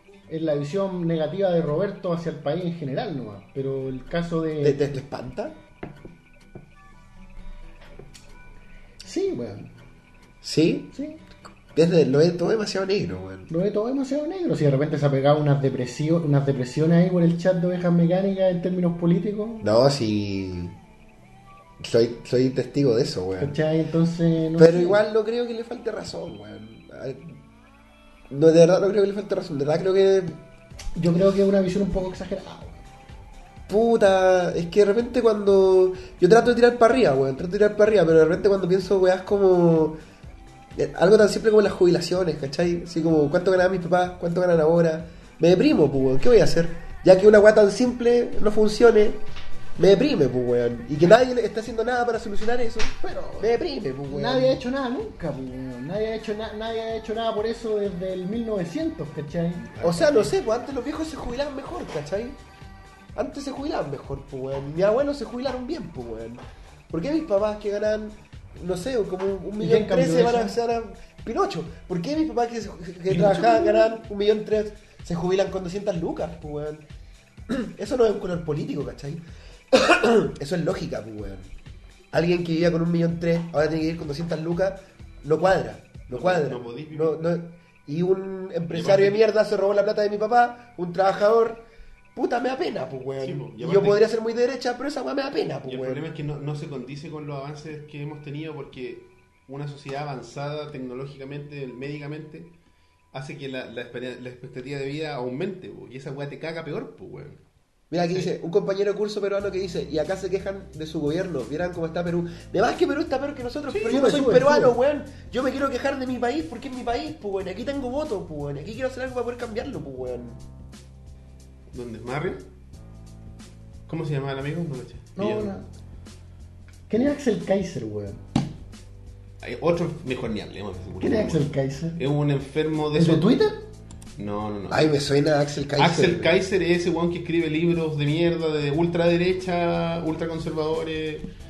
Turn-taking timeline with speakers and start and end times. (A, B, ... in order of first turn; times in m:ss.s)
0:00.3-0:05.0 A
0:04.6-0:05.6 B
0:09.0-0:09.7 A
0:10.4-0:10.9 B
0:10.9-0:11.2 A
0:11.7-0:13.5 B
0:13.5-0:19.7 A
0:19.6-0:20.7 B
0:21.8-0:23.6 B
0:23.4-0:25.0 A
0:24.6-0:27.4 B
0:28.3-0:30.4 B
0:31.0-0:32.8 A
0:33.7-0:40.0 B
0:40.7-0:49.2 B
0:49.8-0:54.6 B
0:53.0-0:53.5 A
0:54.1-0:59.8 A
0:59.7-1:00.3 C
0:59.8-1:02.4 B
1:03.1-1:16.8 B
1:09.6-1:10.6 A
1:13.1-1:13.8 C
1:17.5-1:21.5 B
1:22.1-1:31.6 B
1:26.1-1:27.4 C
1:28.7-1:29.3 C
1:32.1-1:36.1 B
1:33.2-1:34.1 C
1:35.6-1:42.5 C
1:43.1-1:47.4 C
1:47.9-2:00.4 B
1:48.0-1:48.3 C
1:53.7-1:54.1 C
1:53.8-1:54.8 A
2:01.7-2:02.4 C
2:03.9-2:05.5 C
2:05.2-2:05.6 A
2:06.9-2:08.2 A
2:09.4-2:13.3 C
2:11.0-2:12.0 A
2:12.9-2:13.6 A
2:14.2-2:14.9 C
2:14.7-2:16.3 B
2:15.8-2:21.3 C